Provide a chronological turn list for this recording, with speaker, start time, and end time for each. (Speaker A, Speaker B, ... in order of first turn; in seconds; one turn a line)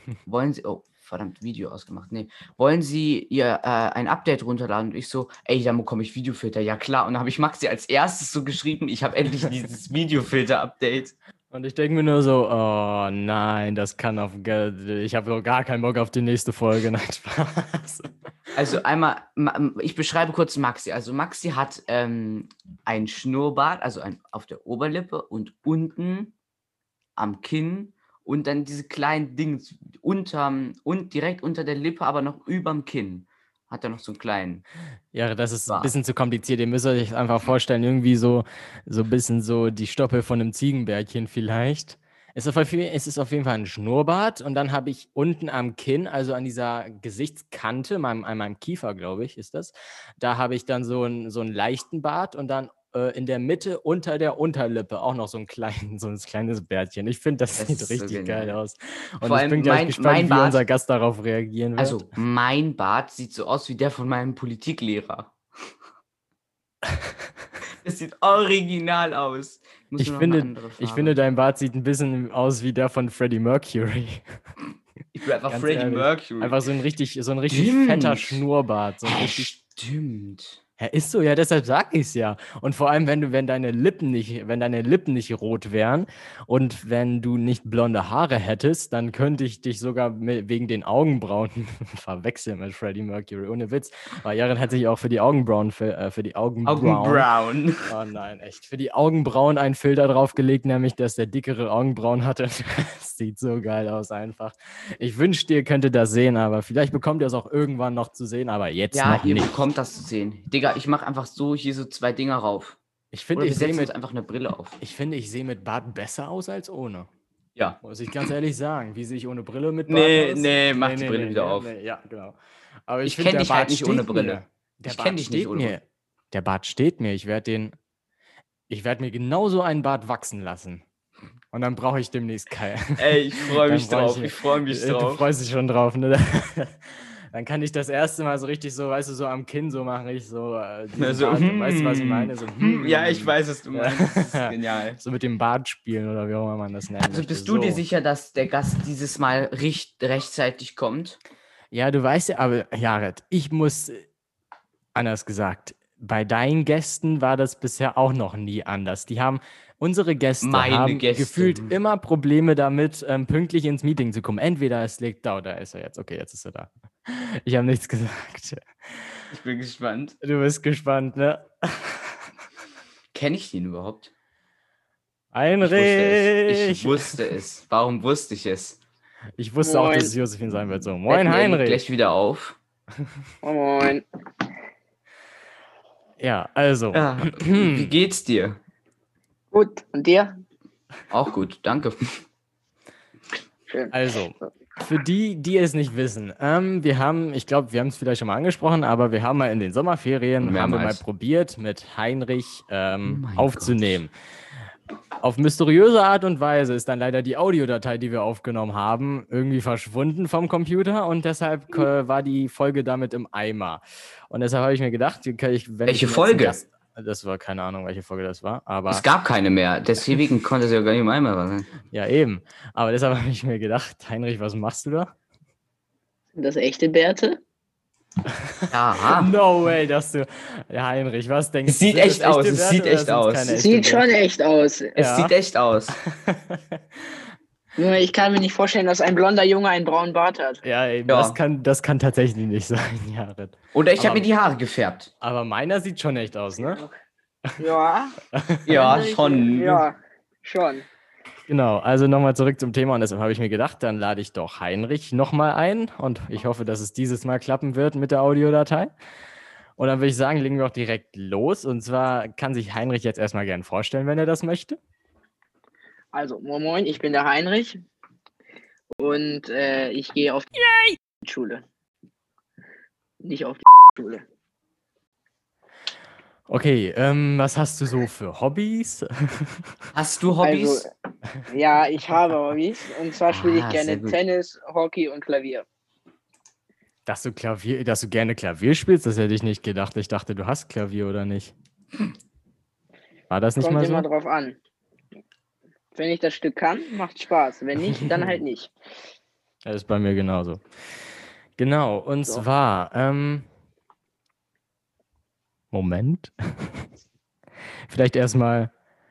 Speaker A: 0.3-11.2
Speaker B: 11.5-18.1
Speaker A: 18.6-26.4
Speaker A: 27.2-34.6
Speaker B: 35.1-62.1
Speaker A: 57.6-58.6
Speaker A: 59.2-60.6
Speaker A: 61.8-65.7
Speaker B: 66.9-67.2
Speaker A: 67.8-71.2
Speaker B: 70.0-74.2
Speaker A: 75.2-76.6
Speaker B: 75.5-79.5
Speaker A: 77.5-78.4
Speaker A: 79.1-80.6
Speaker B: 80.8-97.3
Speaker A: 96.7-97.8
Speaker B: 97.9-109.5
Speaker A: 108.9-112.8
Speaker B: 113.1-113.9
Speaker A: 113.4-114.8
Speaker B: 114.8-117.1
Speaker B: 117.8-127.8
Speaker A: 119.9-121.7
Speaker A: 123.0-125.8
Speaker B: 128.7-130.8
Speaker B: 131.5-136.8
Speaker A: 133.0-135.2
Speaker B: 137.3-147.8
Speaker A: 141.0-145.0
Speaker A: 147.0-151.2
Speaker B: 151.7-154.0
Speaker B: 154.9-169.2
Speaker A: 160.4-161.7
Speaker A: 169.3-170.2
Speaker B: 170.2-172.3
Speaker A: 173.1-174.1
Speaker B: 175.3-177.2
Speaker A: 175.6-178.8
Speaker B: 179.4-181.8
Speaker C: 179.6-180.1
Speaker A: 181.1-182.6
Speaker C: 183.4-184.1
Speaker B: 186.2-187.9
Speaker A: 186.9-188.6
Speaker C: 189.5-190.3
Speaker A: 191.1-192.2
Speaker B: 193.9-204.1
Speaker A: 200.4-201.0
Speaker A: 203.1-204.0
Speaker B: 205.2-219.0
Speaker A: 215.9-216.6
Speaker A: 218.9-221.7
Speaker B: 221.9-225.1
Speaker C: 226.4-227.4
Speaker B: 228.6-234.1
Speaker A: 228.7-229.3
Speaker A: 231.7-233.6
Speaker C: 233.5-235.0
Speaker B: 235.0-235.3
Speaker A: 235.0-236.0
Speaker B: 235.9-237.2
Speaker C: 237.8-240.6
Speaker B: 240.6-244.3
Speaker A: 241.1-241.4
Speaker A: 243.7-245.1
Speaker B: 245.2-246.8
Speaker C: 246.6-246.9
Speaker C: 247.6-248.2
Speaker B: 248.3-249.0
Speaker A: 248.7-249.8
Speaker C: 248.7-250.8
Speaker B: 251.5-258.9
Speaker B: 259.8-264.8
Speaker C: 266.1-267.8
Speaker C: 269.0-270.5
Speaker B: 270.7-270.9
Speaker C: 271.2-271.6
Speaker C: 273.2-274.2
Speaker B: 276.5-279.8
Speaker A: 279.9-280.9
Speaker C: 280.4-280.9
Speaker C: 281.5-285.6
Speaker A: 283.3-284.2
Speaker B: 287.1-291.6
Speaker B: 293.3-294.1
Speaker C: 293.6-294.6
Speaker C: 295.9-298.7
Speaker B: 297.9-298.4
Speaker B: 299.6-300.6
Speaker B: 301.6-303.5
Speaker B: 305.7-306.9
Speaker B: 307.9-308.7